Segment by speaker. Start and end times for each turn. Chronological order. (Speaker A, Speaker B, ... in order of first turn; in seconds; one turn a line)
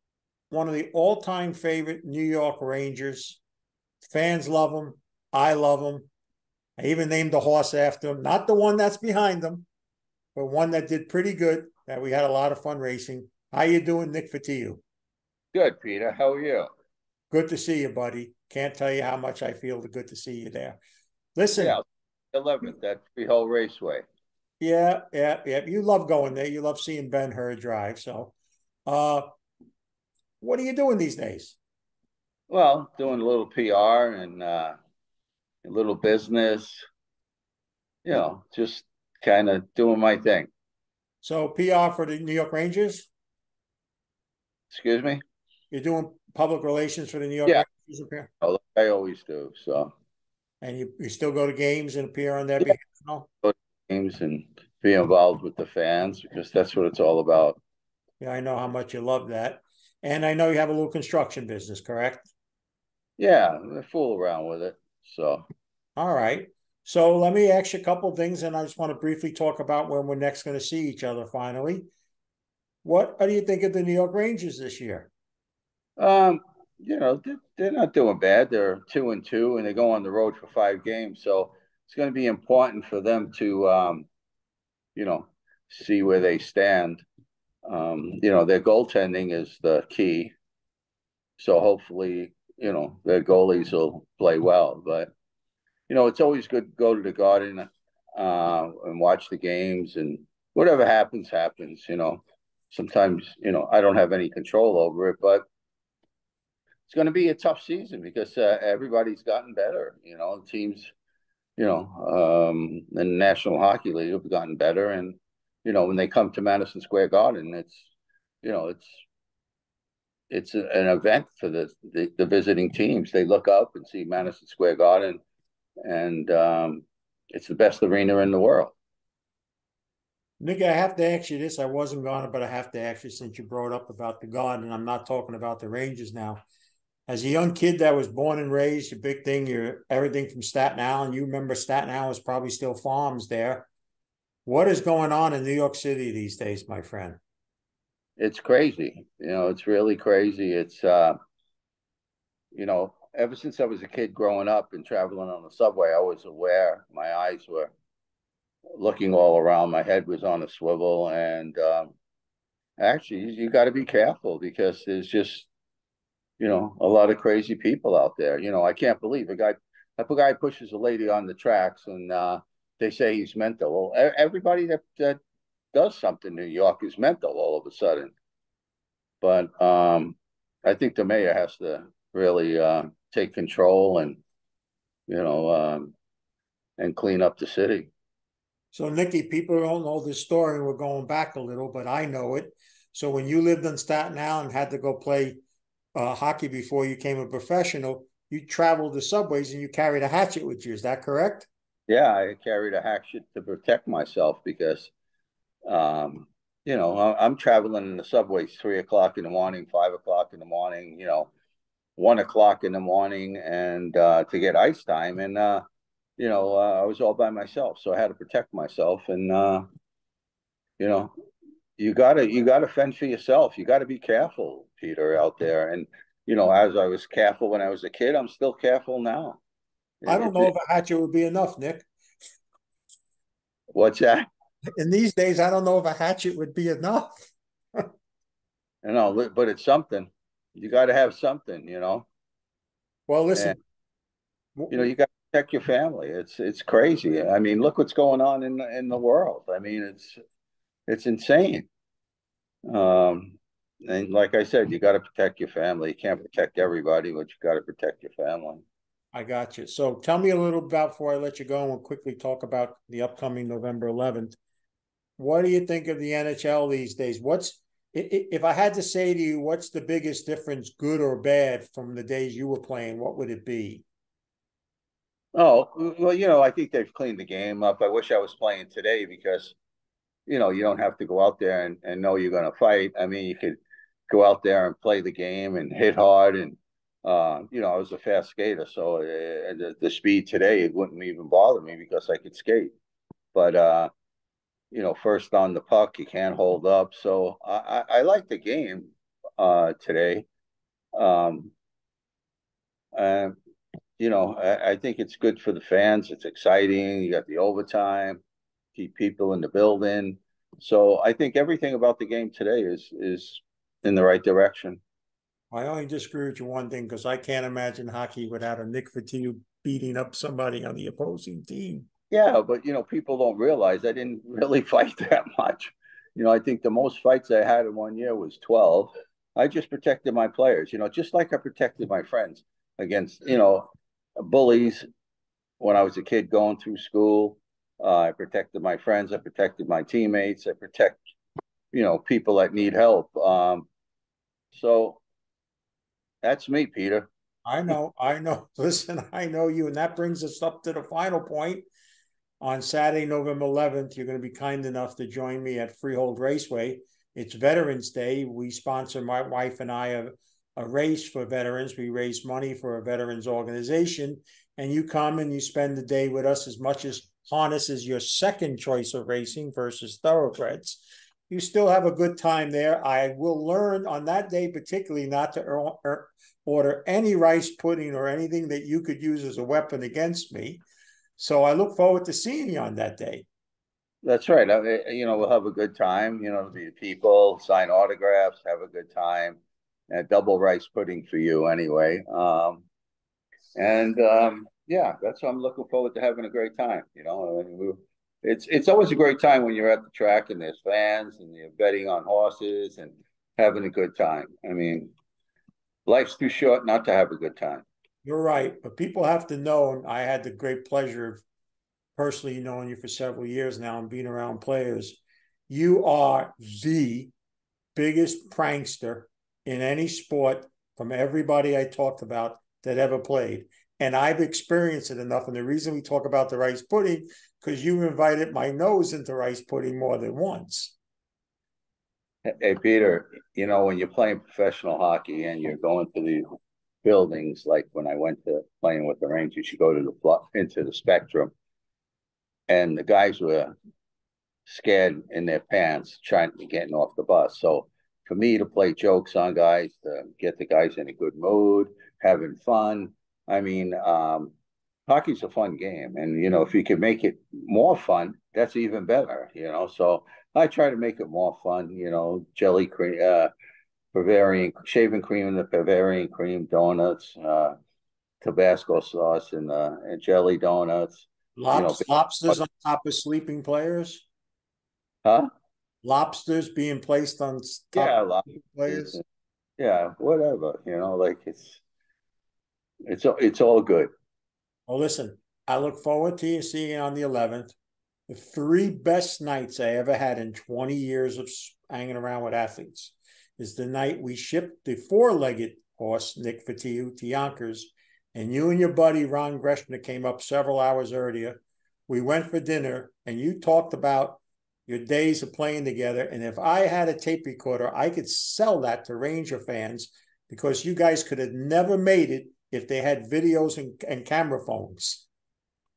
Speaker A: 0.5-3.4
Speaker A: 4.0-6.1
Speaker A: 6.8-9.7
Speaker A: 10.3-14.8
Speaker B: 15.5-16.7
Speaker A: 17.3-20.8
Speaker A: 21.4-21.8
Speaker B: 21.6-21.8
Speaker B: 22.3-24.1
Speaker A: 24.6-28.3
Speaker A: 28.9-29.3
Speaker A: 30.4-31.6
Speaker B: 32.5-34.8
Speaker B: 35.6-36.8
Speaker B: 38.0-40.5
Speaker A: 41.2-43.1
Speaker B: 44.7-45.2
Speaker A: 45.7-48.3
Speaker B: 48.4-49.9
Speaker A: 50.6-53.3
Speaker B: 53.4-57.6
Speaker A: 58.2-62.3
Speaker B: 63.2-65.4
Speaker A: 66.0-71.9
Speaker A: 72.8-75.1
Speaker B: 76.0-84.1
Speaker B: 85.0-87.0
Speaker B: 87.7-90.3
Speaker B: 91.4-95.1
Speaker B: 95.9-105.5
Speaker B: 106.9-110.9
Speaker B: 111.6-117.9
Speaker B: 118.4-119.0
Speaker B: 120.3-125.2
Speaker B: 125.8-128.8
Speaker A: 130.4-136.4
Speaker A: 137.1-143.7
Speaker A: 144.5-147.2
Speaker B: 148.2-151.2
Speaker B: 152.5-157.7
Speaker B: 158.8-161.9
Speaker B: 162.8-165.5
Speaker B: 166.4-175.2
Speaker B: 175.7-178.1
Speaker B: 179.2-184.2
Speaker B: 185.1-185.9
Speaker B: 186.8-187.9
Speaker A: 188.7-195.4
Speaker A: 195.9-201.5
Speaker B: 201.9-204.9
Speaker B: 205.7-211.3
Speaker B: 212.0-215.6
Speaker B: 216.2-219.7
Speaker B: 220.8-221.1
Speaker B: 221.8-229.4
Speaker B: 230.0-230.5
Speaker A: 230.1-231.9
Speaker B: 233.8-234.2
Speaker A: 234.8-237.2
Speaker B: 238.8-242.1
Speaker A: 243.1-243.6
Speaker A: 244.6-244.9
Speaker B: 244.7-250.2
Speaker B: 250.9-251.7
Speaker B: 252.7-258.6
Speaker A: 259.1-264.4
Speaker A: 265.2-273.9
Speaker B: 275.4-279.6
Speaker B: 280.3-292.7
Speaker B: 293.3-293.9
Speaker B: 294.7-300.3
Speaker B: 300.9-301.5
Speaker B: 302.9-303.4
Speaker B: 304.0-308.2
Speaker B: 308.8-314.8
Speaker A: 315.5-321.9
Speaker B: 322.1-334.9
Speaker B: 335.6-341.0
Speaker B: 341.7-343.7
Speaker B: 344.5-345.0
Speaker B: 346.2-347.1
Speaker A: 347.5-351.7
Speaker A: 352.4-380.6
Speaker A: 381.2-383.3
Speaker B: 384.0-389.4
Speaker B: 389.9-392.6
Speaker B: 393.6-404.9
Speaker B: 405.9-407.6
Speaker A: 408.1-411.2
Speaker A: 412.0-417.1
Speaker A: 417.8-430.8
Speaker B: 432.3-436.3
Speaker B: 436.8-441.3
Speaker B: 442.5-443.6
Speaker B: 444.5-454.3
Speaker B: 454.9-463.3
Speaker B: 463.9-467.5
Speaker B: 468.2-472.4
Speaker A: 471.4-474.1
Speaker A: 475.8-479.0
Speaker B: 477.8-479.0
Speaker B: 479.6-481.6
Speaker B: 482.9-483.9
Speaker A: 484.7-487.6
Speaker A: 488.1-515.1